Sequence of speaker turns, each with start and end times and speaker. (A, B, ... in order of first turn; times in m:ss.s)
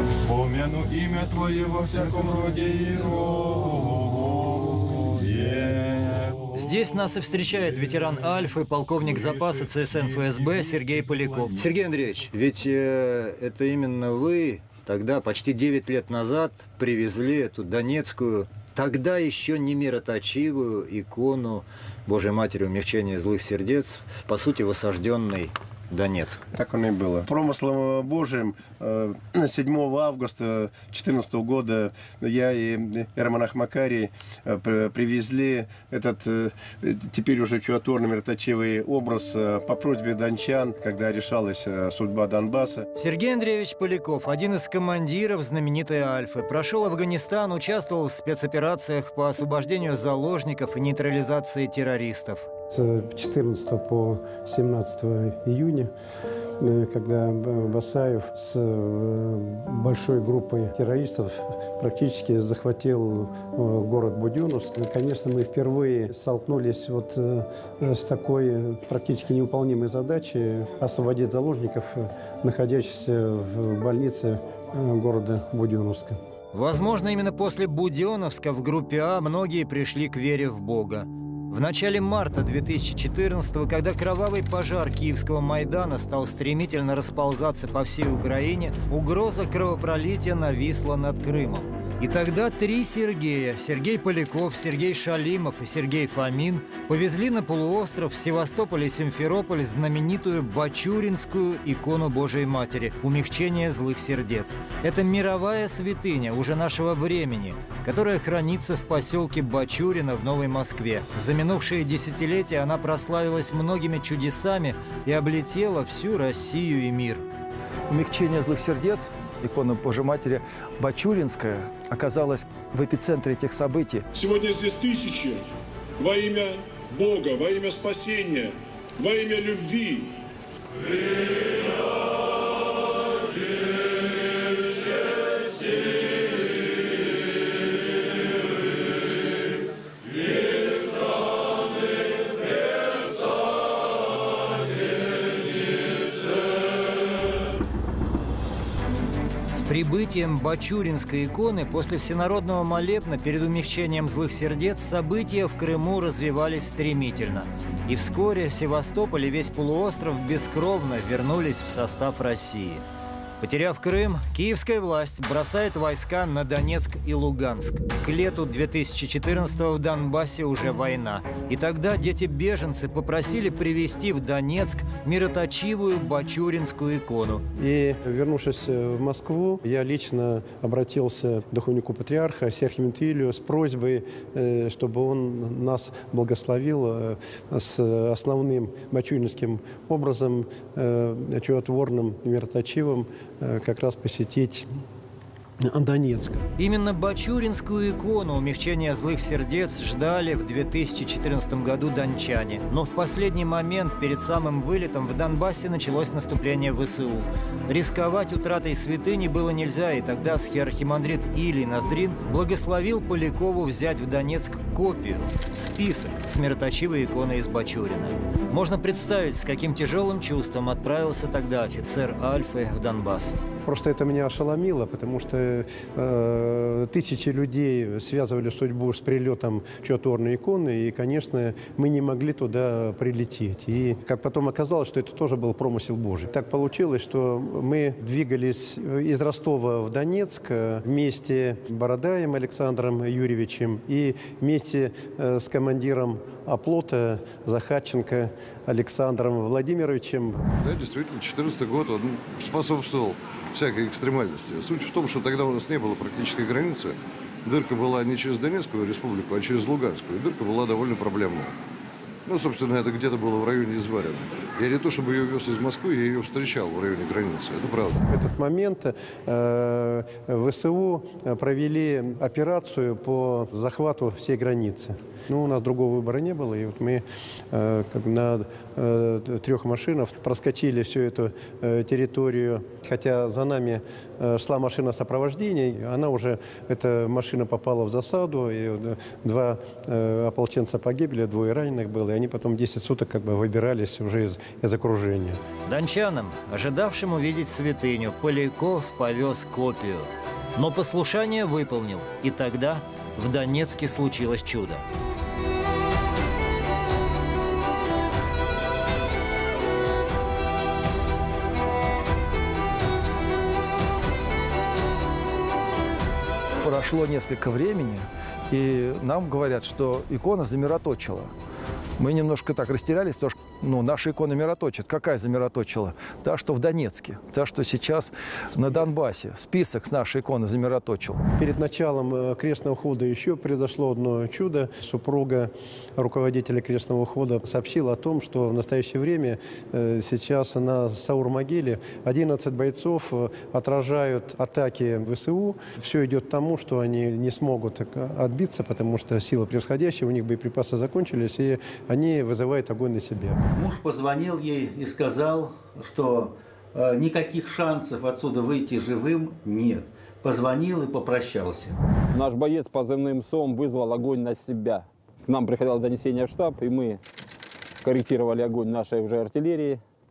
0:00.3-0:11.8 A
0:06.5-0:26.4 B
0:26.5-0:42.8 C
0:42.9-0:52.5 B
0:52.7-0:55.9 C
0:56.6-1:16.2 C
1:16.5-1:57.2 B
1:57.9-2:04.1 D
2:04.1-2:10.1 E
2:29.5-2:42.8 B
2:43.4-2:57.4 B
2:57.6-3:14.7 C
3:15.6-3:16.4 C
3:16.6-3:43.4 B
3:43.6-4:10.5 C
4:10.6-4:21.5 F
4:22.3-4:28.0 F
4:28.1-4:55.4 C
4:55.6-5:04.8 B
5:16.6-5:21.3 D
5:22.0-5:31.2 D
5:31.4-5:53.4 C
5:53.5-6:01.8 G
6:02.1-6:07.0 H
6:07.8-6:09.8 H